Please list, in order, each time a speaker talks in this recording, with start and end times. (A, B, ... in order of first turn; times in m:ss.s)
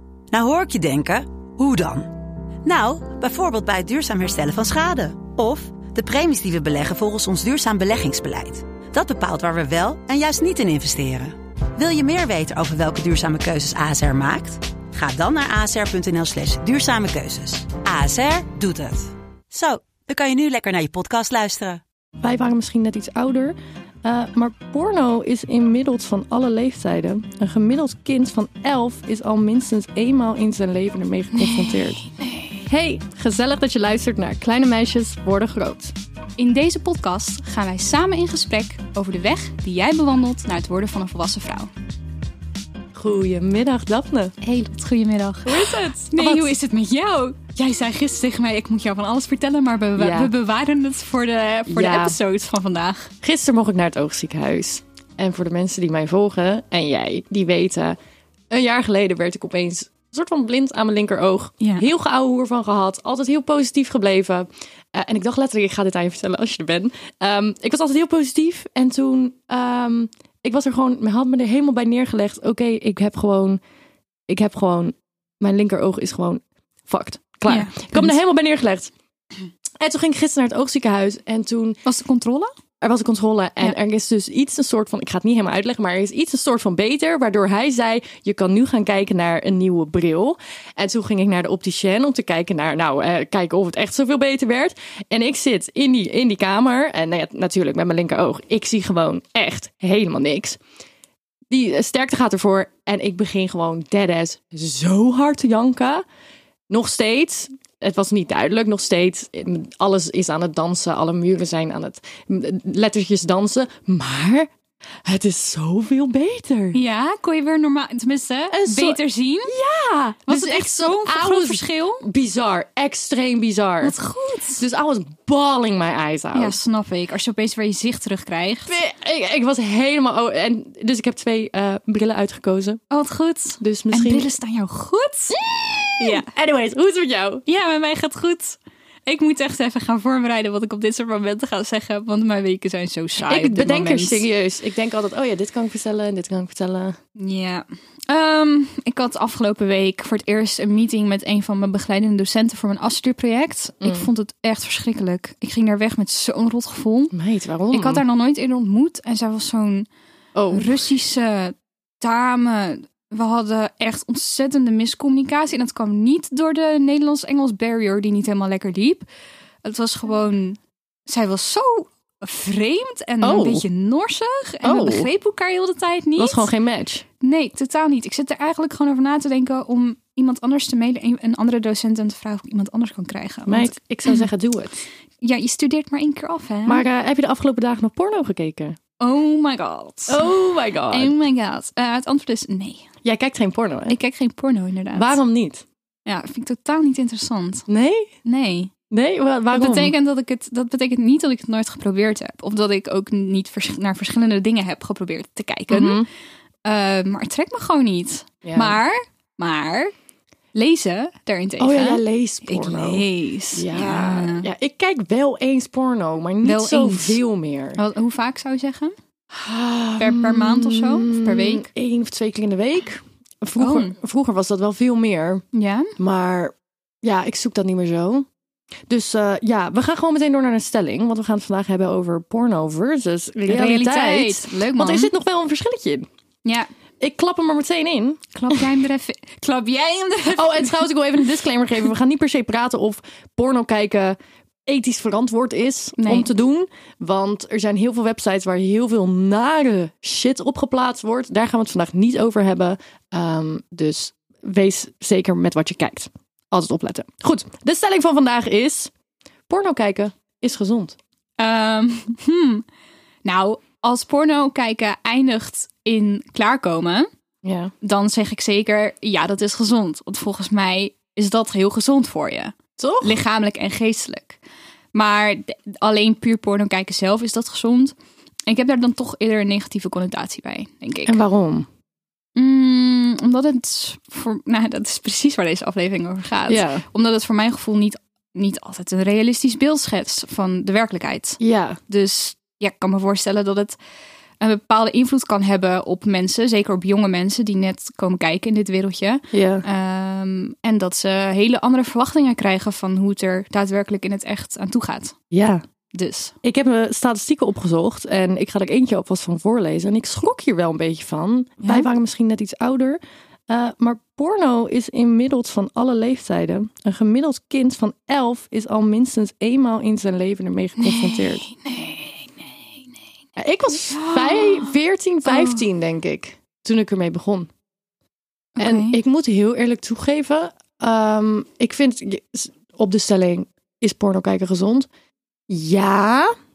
0:00.3-0:21.8 A
0:22.2-0:32.0 B
0:31.4-0:32.5 C
0:32.6-0:35.9 B
0:36.4-0:41.7 C
0:42.9-0:44.3 B
0:44.4-0:53.1 C
0:45.4-0:46.6 B
0:50.0-0:50.3 B
0:51.7-0:52.2 B
0:53.2-0:58.0 B
0:58.5-1:13.6 B
1:01.6-1:01.9 C
1:14.3-1:18.9 B
1:17.5-1:18.2 C
1:19.8-1:21.8 B
1:21.8-1:22.5 C
1:22.8-1:40.6 B
1:41.5-1:46.0 B
1:46.7-1:54.5 B
1:55.0-1:56.8 B
1:56.7-1:59.6 C
1:58.5-2:04.0 B
2:00.3-2:02.0 C
2:03.8-2:04.6 C
2:04.6-2:06.6 B
2:06.3-2:08.8 C
2:08.7-2:12.8 B
2:12.9-2:15.4 C
2:13.6-2:14.3 B
2:15.3-2:17.4 B
2:16.0-2:16.3 C
2:17.5-2:24.2 C
2:23.3-2:27.0 B
2:27.2-2:37.2 C
2:33.8-2:34.1 B
2:37.1-2:38.0 B
2:37.7-2:39.9 C
2:40.4-2:40.8 B
2:40.5-2:49.1 C
2:49.6-2:56.5 C
2:53.2-2:53.7 B
2:54.6-2:55.1 B
2:56.2-2:57.0 B
2:57.2-3:04.3 C
3:03.5-3:04.8 B
3:05.2-3:06.8 C
3:06.7-3:08.8 B
3:09.0-3:10.3 C
3:10.1-3:11.2 B
3:10.9-3:12.9 C
3:13.0-3:14.0 B
3:13.9-3:15.2 C
3:14.9-3:15.6 B
3:16.0-3:17.7 C
3:17.7-3:18.1 B
3:18.2-3:18.7 C
3:18.9-3:20.0 B
3:19.5-3:26.0 C
3:25.7-3:26.1 B
3:26.6-3:29.9 C
3:28.4-3:28.8 B
3:30.5-3:34.5 C
3:31.6-3:37.8 B
3:36.4-3:37.2 C
3:37.8-3:38.9 C
3:39.3-3:45.4 B
3:40.0-3:41.7 C
3:43.6-3:44.0 C
3:45.5-3:45.9 C
3:46.0-3:48.3 B
3:48.9-3:56.1 B
3:53.5-3:55.1 C
3:56.4-3:56.7 C
3:57.0-3:58.8 B
3:58.3-4:01.0 C
4:00.3-4:18.9 B
4:06.0-4:06.3 C
4:19.5-4:21.0 B
4:21.4-4:22.6 C
4:23.2-4:27.1 C
4:27.4-4:27.7 B
4:27.8-4:34.4 C
4:32.8-4:33.2 B
4:34.9-4:38.0 C
4:38.5-4:41.2 C
4:41.1-4:41.7 B
4:42.4-4:53.8 C
4:46.5-4:46.8 B
4:51.4-4:51.8 B
4:54.4-5:05.2 C
4:59.3-4:59.7 B
5:05.3-5:05.6 B
5:05.9-5:06.3 C
5:06.4-5:21.4 B
5:11.6-5:11.9 C
5:20.8-5:22.5 C
5:23.4-5:27.5 B
5:23.9-5:25.6 C
5:28.6-5:29.0 C
5:28.6-5:34.9 B
5:35.5-5:36.3 B